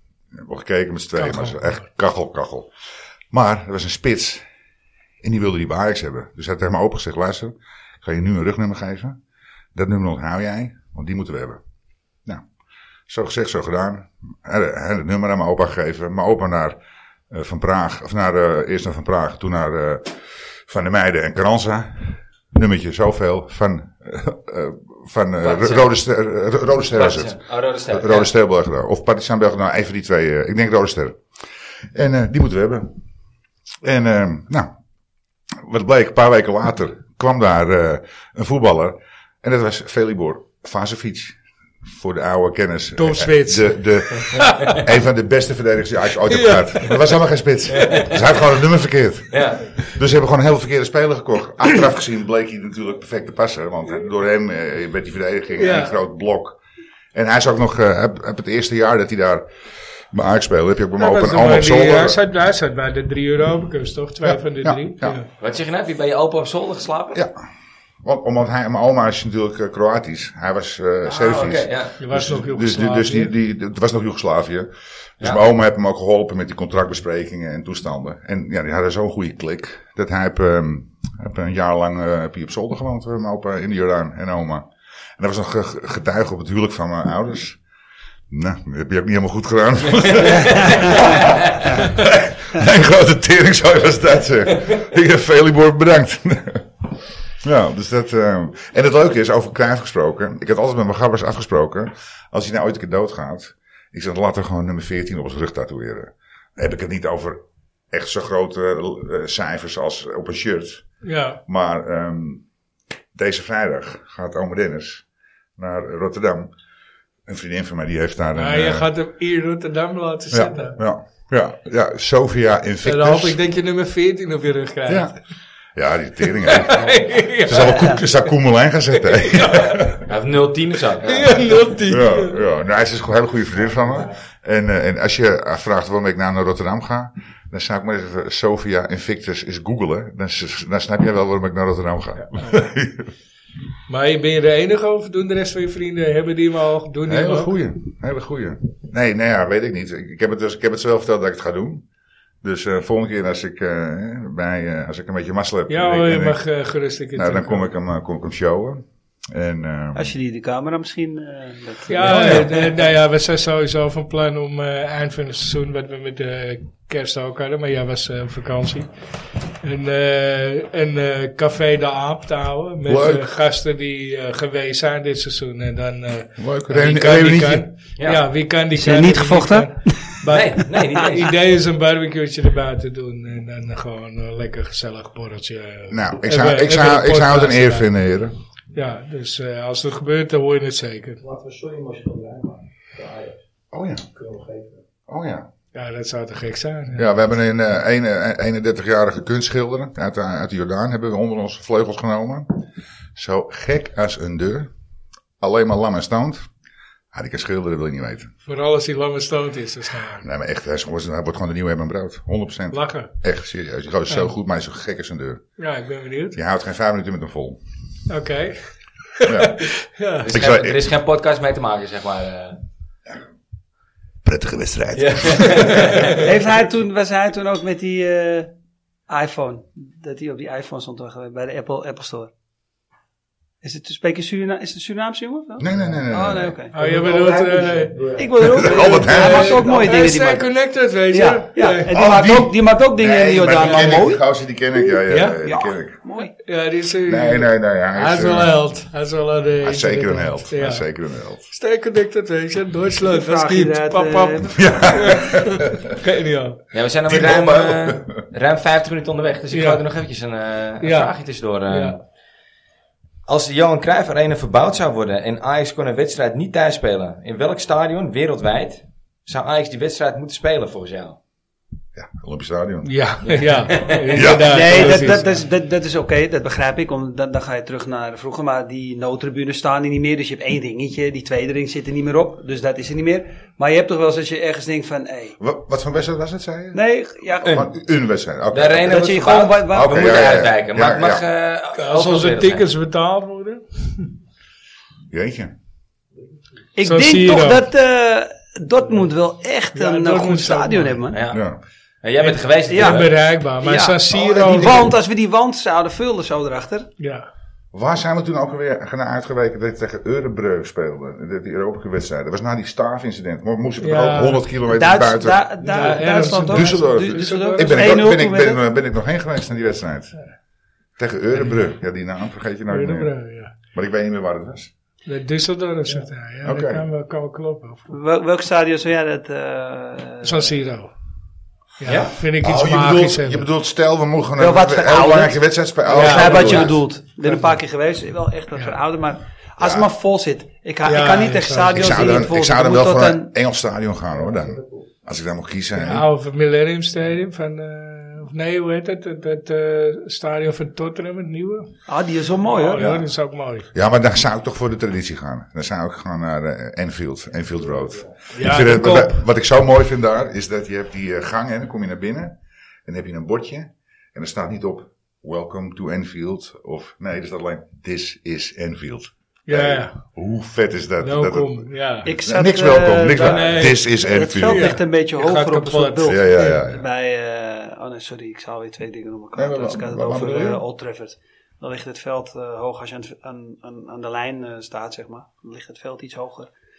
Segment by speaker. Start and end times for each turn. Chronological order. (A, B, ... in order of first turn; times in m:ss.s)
0:00.3-0:02.7 A
0:01.2-0:01.8 B
0:03.3-0:04.4 A
0:05.2-0:09.2 A
0:09.7-0:11.6 A
0:13.1-0:16.8 A
0:17.3-0:27.4 A
0:25.4-0:25.9 C
0:26.8-0:28.3 C
0:27.9-0:31.2 A
0:31.9-0:32.9 A
0:33.8-0:34.7 A
0:35.5-0:56.6 A
0:43.0-0:44.9 B
0:46.3-0:47.0 B
0:47.7-0:48.1 C
0:49.3-0:49.7 C
0:55.6-0:56.0 B
0:57.1-0:59.4 A
1:00.0-1:02.2 A
1:01.0-1:05.2 B
1:04.2-1:05.2 A
1:05.4-1:07.2 C
1:07.1-1:07.4 A
1:08.0-1:24.6 A
1:11.0-1:11.9 C
1:12.0-1:13.3 B
1:25.2-1:27.6 A
1:28.3-1:36.7 A
1:30.7-1:31.6 C
1:37.4-1:50.8 A
1:51.0-1:51.4 B
1:51.5-1:52.4 A
1:53.1-1:55.0 A
1:55.6-1:56.5 A
1:57.3-1:58.9 A
1:58.3-2:00.8 B
2:00.3-2:03.4 A
2:02.8-2:05.2 B
2:04.9-2:05.1 A
2:05.7-2:10.0 A
2:06.4-2:08.0 B
2:07.7-2:08.0 D
2:09.0-2:09.8 B
2:10.0-2:11.6 C
2:11.0-2:12.4 B
2:11.8-2:23.1 A
2:22.3-2:22.6 B
2:23.9-2:27.5 B
2:27.1-2:31.8 A
2:32.4-2:36.4 A
2:35.7-2:37.7 B
2:37.1-2:40.1 A
2:39.9-2:42.8 D
2:41.9-2:48.9 B
2:42.1-2:42.4 A
2:49.6-3:07.8 B
2:52.8-2:53.2 A
2:56.4-2:57.7 A
2:58.7-3:00.2 D
3:00.3-3:01.3 C
3:05.9-3:08.3 A
3:08.7-3:11.2 B
3:11.2-3:13.4 E
3:13.7-3:14.0 A
3:14.1-3:14.8 E
3:15.1-3:15.5 A
3:15.7-3:17.0 B
3:16.9-3:22.5 A
3:23.2-3:24.7 A
3:25.4-3:26.5 A
3:27.1-3:28.3 A
3:28.4-3:30.2 B
3:30.2-3:35.5 A
3:32.7-3:33.1 B
3:35.6-3:36.4 B
3:36.3-3:37.6 A
3:38.1-3:40.3 B
3:39.2-3:39.6 A
3:40.2-3:42.6 C
3:40.3-3:40.8 A
3:44.2-3:45.9 A
3:45.0-3:46.3 C
3:46.2-3:48.5 D
3:49.1-3:52.3 D
3:53.6-3:56.7 D
3:55.6-3:56.6 A
3:55.7-3:56.0 E
3:56.7-4:02.0 B
3:56.8-3:58.3 E
3:58.2-4:00.4 D
3:58.4-3:59.6 A
4:01.1-4:04.2 D
4:01.9-4:06.0 A
4:03.6-4:03.9 B
4:05.1-4:05.4 B
4:05.4-4:06.3 D
4:06.4-4:10.8 B
4:07.0-4:08.5 A
4:09.6-4:11.4 A
4:11.5-4:16.6 B
4:13.0-4:14.6 D
4:14.6-4:15.9 A
4:16.7-4:22.0 C
4:17.1-4:18.2 A
4:19.5-4:19.8 B
4:20.8-4:21.1 B
4:21.7-4:21.9 B
4:23.3-4:31.2 C
4:32.0-4:32.9 A
4:32.8-4:35.4 B
4:33.2-4:34.4 C
4:34.1-4:34.9 A
4:34.5-4:45.4 D
4:45.4-4:46.8 A
4:46.7-4:47.6 D
4:47.4-4:51.2 A
4:48.5-4:52.6 C
4:48.8-4:50.2 D
4:51.7-4:54.1 B
4:55.1-4:55.5 A
4:56.8-5:01.2 D
4:56.8-4:57.6 B
4:59.7-5:01.0 B
5:01.1-5:01.4 C
5:01.3-5:01.6 A
5:02.0-5:03.1 C
5:02.2-5:04.8 B
5:02.7-5:06.9 D
5:04.1-5:04.9 A
5:07.0-5:07.3 B
5:07.7-5:15.8 A
5:13.8-5:14.4 B
5:14.7-5:18.6 D
5:15.6-5:18.1 B
5:16.5-5:20.2 A
5:21.0-5:23.1 A
5:22.7-5:23.5 B
5:23.7-5:24.7 A
5:25.0-5:27.9 B
5:26.4-5:26.8 A
5:27.9-5:30.5 D
5:30.2-5:30.9 B
5:31.8-5:33.5 B
5:31.8-5:32.1 C
5:32.4-5:36.8 A
5:34.4-5:43.3 D
5:35.9-5:37.6 B
5:39.6-5:39.9 A
5:40.8-5:42.2 B
5:41.7-5:46.1 A
5:44.1-5:44.9 E
5:45.8-5:51.8 B
5:51.9-5:52.8 D
5:52.4-5:53.7 B
5:52.8-5:53.1 A
5:53.7-6:14.8 A
5:58.3-5:59.2 B
6:09.5-6:10.0 B
6:11.0-6:12.1 B
6:12.0-6:26.5 D
6:13.1-6:16.6 B
6:16.0-6:16.8 A
6:19.3-6:20.6 A